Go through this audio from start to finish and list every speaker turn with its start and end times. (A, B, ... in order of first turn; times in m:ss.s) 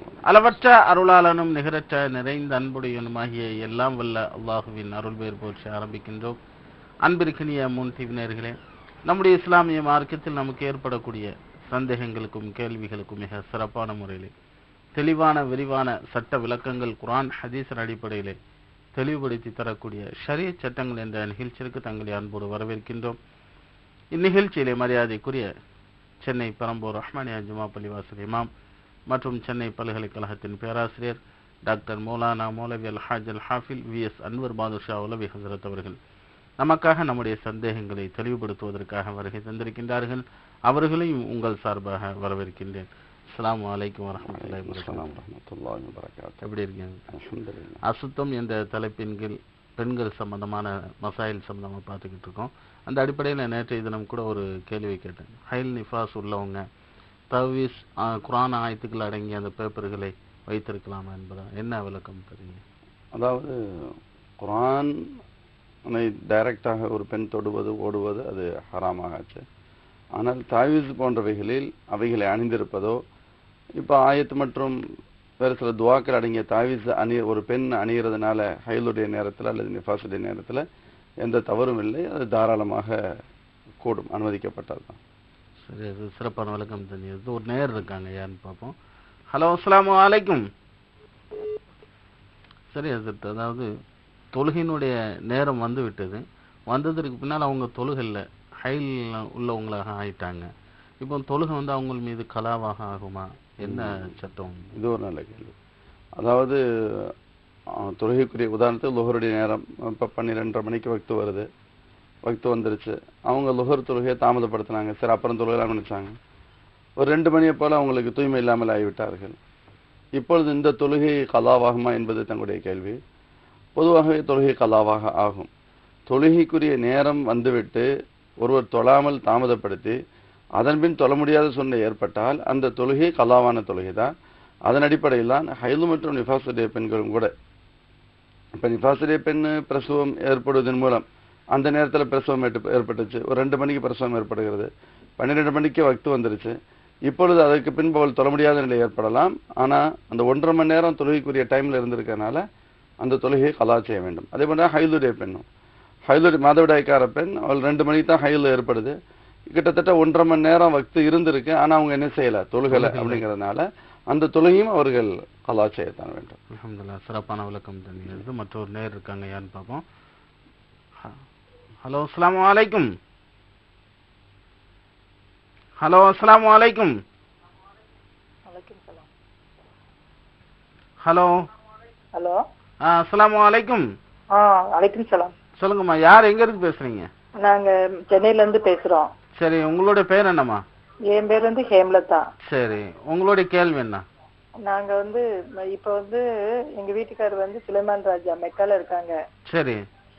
0:00.2-0:06.4 A
0:07.0-0:14.3 A
0:15.0-0:18.4 A
0:19.0-0:23.2 A
0:24.1-0:25.5 A
0:26.2-0:28.5 A
0:29.1-0:36.0 A
0:36.6-0:45.2 A
0:44.2-0:46.4 B
0:46.4-0:47.0 A
0:47.1-0:47.8 B
0:47.9-0:56.6 A
0:57.3-1:02.6 A
1:03.2-1:05.0 B
1:05.9-1:09.4 B
1:10.2-1:13.0 B
1:13.8-1:14.8 B
1:15.4-1:20.6 B
1:21.2-1:23.1 B
1:23.8-1:25.0 B
1:25.7-1:28.7 A
1:29.3-1:30.4 A
1:32.7-1:33.7 A
1:34.3-1:40.5 A
1:41.0-1:44.7 A
1:43.6-1:44.1 B
1:44.8-1:45.5 B
1:46.2-1:47.1 B
1:47.8-1:51.5 B
1:52.3-1:56.2 B
1:57.0-1:59.4 B
2:00.2-2:03.0 B
2:03.8-2:05.5 B
2:06.1-2:07.9 B
2:08.4-2:10.0 B
2:10.6-2:14.1 B
2:14.7-2:17.3 B
2:18.6-2:26.6 B
2:27.1-2:32.4 B
2:33.0-2:35.5 B
2:36.1-2:39.0 B
2:39.5-2:46.4 B
2:42.7-2:43.3 A
2:46.5-2:49.8 A
2:51.8-2:52.9 A
2:55.8-2:56.9 A
2:58.5-2:59.1 C
3:01.0-3:01.4 A
3:02.1-3:02.4 C
3:02.9-3:03.9 A
3:04.3-3:05.3 C
3:05.6-3:07.1 A
3:07.4-3:09.1 C
3:09.4-3:10.6 A
3:11.1-3:12.2 C
3:12.5-3:14.0 A
3:14.6-3:16.2 C
3:16.8-3:19.2 C
3:19.5-3:19.8 A